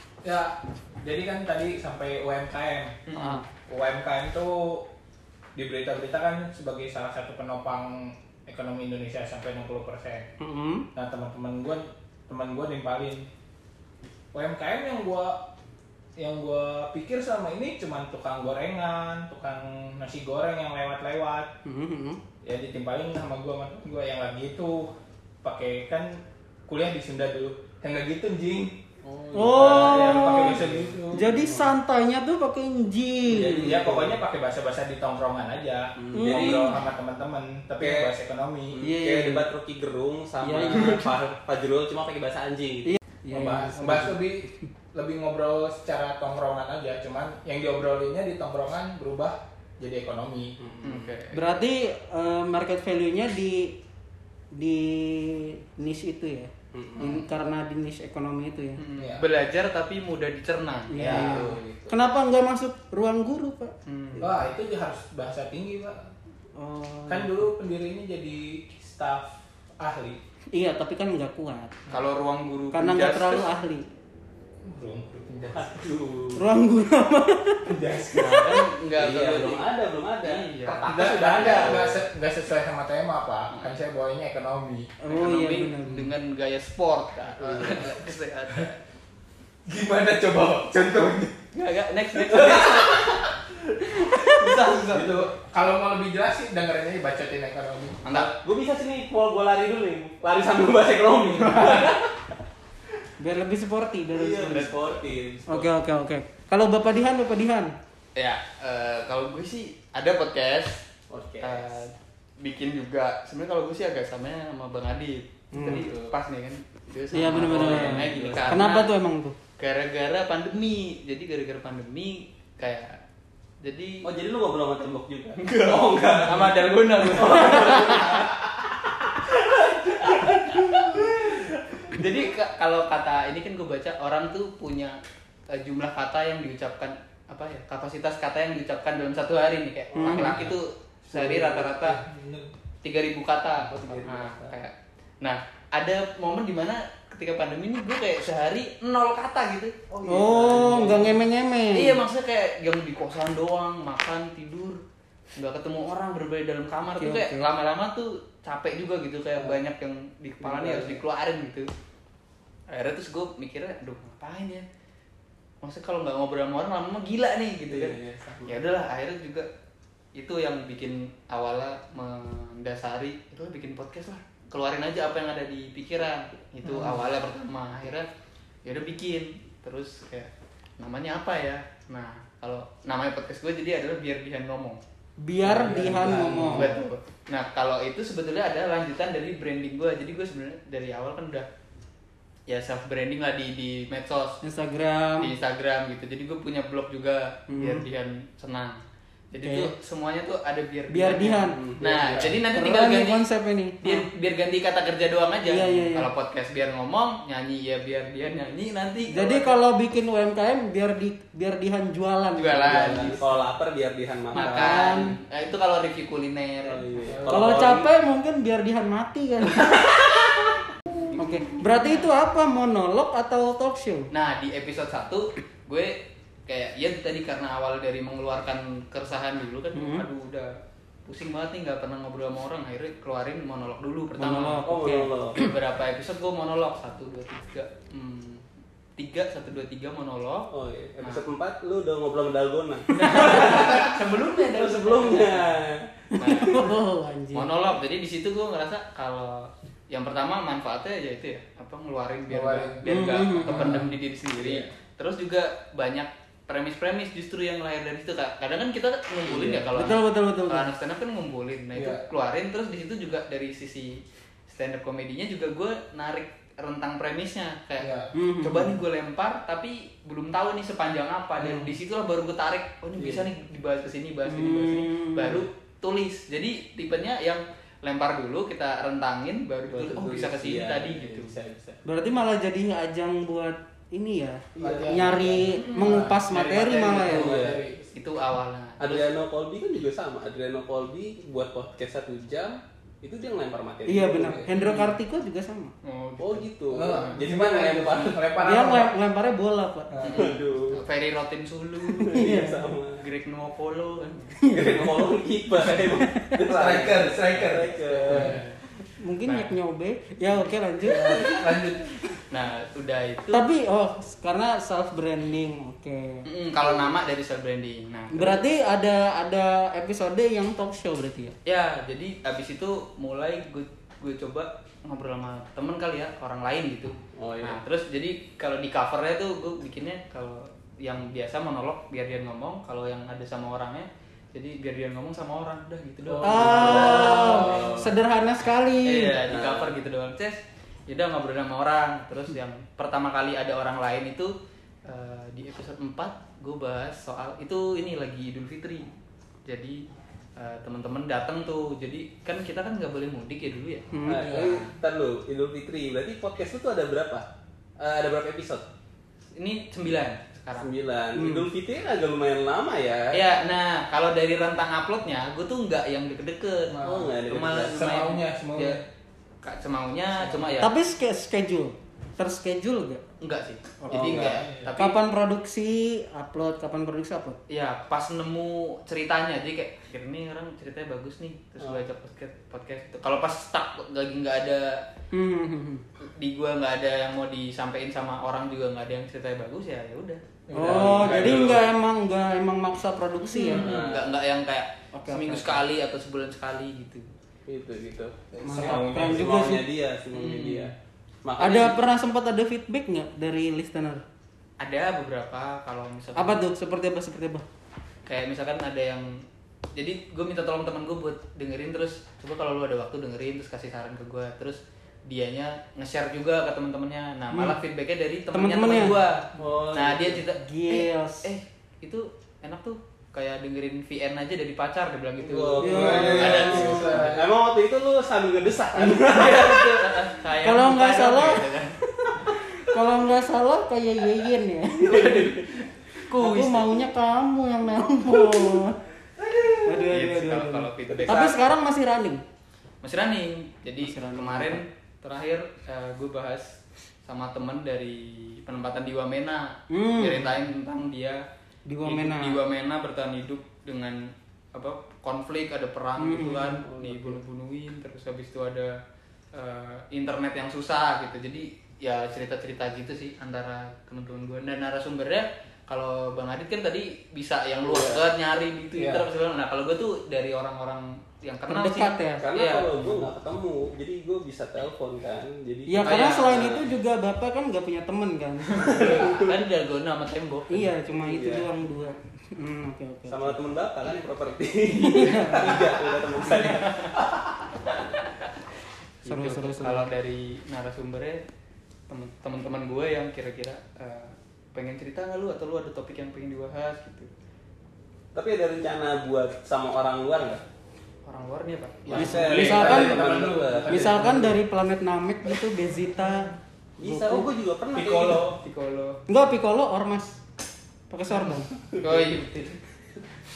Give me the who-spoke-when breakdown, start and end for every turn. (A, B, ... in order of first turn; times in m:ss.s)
0:00.2-0:03.0 A
0:03.1-0:03.4 B
0:03.1-0:03.4 C
0:03.7-0:04.9 A
0:05.6-0:10.3 A
0:10.4-0:10.9 C
0:11.0-0:13.3 A
0:14.3-0:15.4 A
0:16.2-0:21.5 A
0:21.6-0:22.2 C
0:22.4-0:24.9 A
0:25.4-0:28.8 A
0:29.0-0:31.7 D
0:29.3-0:33.6 C
0:29.5-0:31.6 A
0:33.3-0:34.2 D
0:33.3-0:38.8 A
0:36.0-0:36.8 D
0:36.2-0:36.8 C
0:38.7-0:43.0 D
0:38.8-0:39.4 C
0:40.4-0:41.1 C
0:42.9-0:44.2 C
0:43.3-0:50.6 A
0:50.6-0:51.2 D
0:50.8-0:51.4 B
0:51.3-0:53.8 C
0:54.5-0:58.8 C
0:56.7-0:57.2 D
0:58.8-1:01.5 B
0:59.0-0:59.2 A
1:00.9-1:03.7 C
1:01.0-1:02.0 D
1:03.9-1:04.3 B
1:04.2-1:06.1 A
1:06.6-1:07.4 C
1:07.1-1:10.2 A
1:10.6-1:11.8 C
1:11.9-1:13.5 B
1:12.7-1:13.9 C
1:14.6-1:15.8 A
1:15.5-1:16.5 D
1:16.4-1:17.8 C
1:17.7-1:18.6 A
1:18.1-1:21.8 B
1:19.0-1:22.0 D
1:20.8-1:24.9 A
1:23.5-1:23.8 B
1:25.0-1:26.1 C
1:25.1-1:28.8 B
1:27.4-1:27.9 D
1:29.7-1:31.4 A
1:31.5-1:33.1 B
1:32.3-1:33.2 A
1:33.9-1:35.2 D
1:34.7-1:38.3 A
1:38.0-1:38.3 B
1:38.4-1:42.0 D
1:41.5-1:42.0 A
1:43.2-1:44.8 C
1:44.1-1:45.7 D
1:44.5-1:45.0 B
1:45.5-1:47.7 C
1:48.2-1:50.8 B
1:51.1-1:51.8 D
1:51.4-1:58.9 B
1:55.5-1:55.9 C
1:55.7-1:56.1 D
1:57.1-1:59.4 C
1:57.3-1:58.7 D
1:59.6-2:03.0 B
2:03.6-2:04.1 B
2:04.0-2:08.3 D
2:05.4-2:08.3 B
2:10.5-2:11.2 B
2:11.8-2:15.0 B
2:15.5-2:22.0 B
2:20.0-2:20.5 D
2:20.0-2:20.4 C
2:21.1-2:22.5 A
2:22.8-2:29.8 B
2:23.6-2:24.6 D
2:29.9-2:31.1 D
2:30.1-2:32.0 C
2:30.6-2:31.0 A
2:31.7-2:34.8 B
2:35.4-2:41.7 B
2:37.0-2:37.5 C
2:40.4-2:41.0 D
2:42.7-2:44.6 B
2:45.6-2:49.5 B
2:47.7-2:48.6 D
2:50.2-2:58.1 B
2:58.6-3:04.8 B
3:05.2-3:06.8 C
3:05.4-3:06.8 D
3:05.9-3:11.5 B
3:12.5-3:14.4 B
3:14.4-3:15.3 C
3:15.2-3:18.8 B
3:17.5-3:17.8 C
3:19.3-3:23.3 B
3:19.4-3:19.7 C
3:20.9-3:21.6 C
3:21.6-3:22.4 D
3:22.1-3:24.1 C
3:23.8-3:29.5 B
3:25.5-3:26.1 C
3:29.1-3:33.2 C
3:32.4-3:33.5 B
3:32.6-3:35.0 D
3:34.3-3:35.2 C
3:34.3-3:36.9 B
3:36.6-3:37.9 D
3:37.1-3:37.6 A
3:37.3-3:39.7 C
3:41.1-3:42.1 B
3:41.2-3:44.1 C
3:44.1-3:45.9 B
3:46.5-3:50.5 B
3:49.7-3:50.1 C
3:51.1-3:54.7 B
3:54.2-3:55.1 C
3:54.7-3:55.4 D
3:55.4-3:58.4 B
3:59.0-4:01.3 B
4:00.5-4:03.9 D
4:02.9-4:05.6 B
4:04.6-4:05.9 D
4:06.2-4:07.5 C
4:06.2-4:06.7 B
4:07.3-4:41.3 B
4:12.3-4:12.9 A
4:12.8-4:13.8 C
4:13.4-4:14.7 A
4:19.3-4:19.7 A
4:19.7-4:20.7 C
4:21.8-4:22.0 A
4:27.8-4:28.1 A
4:28.1-4:28.7 C
4:31.4-4:31.7 C
4:33.0-4:33.3 D
4:34.3-4:35.5 C
4:39.7-4:41.8 D
4:41.8-4:47.4 C
4:44.6-4:45.4 D
4:44.6-4:47.9 A
4:45.6-4:46.1 B
4:46.7-4:47.1 B
4:47.0-4:47.6 D
4:47.9-4:49.2 B
4:48.8-4:54.4 D
4:53.9-4:55.7 C
4:54.2-4:54.5 A
4:54.6-4:55.0 B
4:55.8-4:57.2 B
4:56.2-4:58.2 D
4:56.7-4:58.9 A
4:58.4-5:00.2 C
4:59.9-5:00.3 A
5:00.0-5:02.2 B
5:00.1-5:00.8 D
5:01.9-5:03.0 D
5:02.0-5:02.7 C
5:03.0-5:04.4 B
5:04.4-5:05.0 C
5:04.5-5:08.4 D
5:06.4-5:08.4 A
5:08.0-5:08.6 B
5:09.0-5:11.4 C
5:09.2-5:09.5 B
5:10.8-5:12.0 A
5:12.3-5:13.5 B
5:13.3-5:16.2 C
5:16.2-5:18.4 B
5:18.1-5:21.4 C
5:21.4-5:37.6 B
5:27.2-5:27.6 D
5:36.1-5:37.7 A
5:36.2-5:39.2 C
5:36.4-5:37.9 D
5:38.8-5:44.3 B
5:39.2-5:39.8 D
5:44.9-5:48.9 B
5:49.5-5:49.8 B
5:50.4-5:54.7 B
5:53.9-5:54.2 C
5:54.1-5:57.2 D
5:54.1-5:54.5 A
5:57.8-5:58.6 D
5:59.4-6:00.7 B
6:00.6-6:03.3 D
6:01.2-6:01.5 C
6:03.1-6:08.8 B
6:06.7-6:07.1 A
6:06.8-6:08.0 D
6:07.7-6:08.8 A
6:09.4-6:10.7 B
6:10.2-6:10.5 A
6:10.6-6:13.0 C
6:13.2-6:15.0 B
6:13.8-6:17.4 C
6:13.9-6:14.8 A
6:17.5-6:24.8 B
6:25.1-6:25.8 C
6:26.1-6:31.6 B
6:30.5-6:31.6 A
6:30.5-6:33.7 C
6:30.8-6:31.2 D
6:33.3-6:37.1 B
6:33.5-6:34.1 D
6:34.9-6:35.6 C
6:37.5-6:38.2 D
6:38.3-6:39.4 A
6:38.4-6:39.6 C
6:38.9-6:40.7 D
6:40.1-6:40.7 B
6:41.2-6:41.8 D
6:41.4-6:44.0 C
6:44.6-6:46.4 B
6:46.2-6:47.4 C
6:48.1-6:49.1 B
6:49.8-7:07.2 B
6:57.3-6:57.6 C
6:58.3-6:59.0 C
6:59.4-7:00.2 D
7:00.4-7:01.3 C
7:05.2-7:09.9 D
7:05.6-7:06.9 C
7:05.6-7:07.3 A
7:08.7-7:11.7 B
7:10.4-7:15.0 C
7:14.8-7:16.7 B
7:14.8-7:15.5 D
7:16.1-7:18.8 C
7:19.7-7:22.2 C
7:19.8-7:21.4 B
7:20.9-7:21.4 D
7:22.8-7:26.5 B
7:23.8-7:24.6 C
7:27.0-7:31.2 B
7:29.7-7:30.3 C
7:31.7-7:32.4 C
7:31.8-7:34.0 B
7:34.6-7:38.8 B
7:36.0-7:36.6 C
7:36.6-7:37.2 D
7:39.4-7:53.0 B
7:47.6-7:48.0 D
7:48.8-7:49.1 A
7:51.5-7:52.3 C
7:52.2-7:56.7 D
7:55.7-7:58.8 C
7:55.8-7:56.5 B
7:58.5-8:00.7 B
7:58.6-7:59.4 D
8:00.5-8:03.4 C
8:01.0-8:01.5 D
8:03.1-8:07.0 D
8:04.8-8:05.7 C
8:06.2-8:07.0 B
8:07.7-8:08.1 B
8:09.0-8:11.2 B
8:09.1-8:09.9 C
8:11.9-8:17.1 B
8:18.2-8:20.4 D
8:21.1-8:22.4 B
8:21.9-8:24.2 D
8:21.9-8:24.3 A
8:22.0-8:23.0 C
8:23.7-8:27.3 C
8:26.8-8:28.2 D
8:27.8-8:28.3 A
8:28.1-8:29.0 B
8:29.1-8:30.2 C
8:30.9-8:31.5 C
8:31.8-8:32.6 B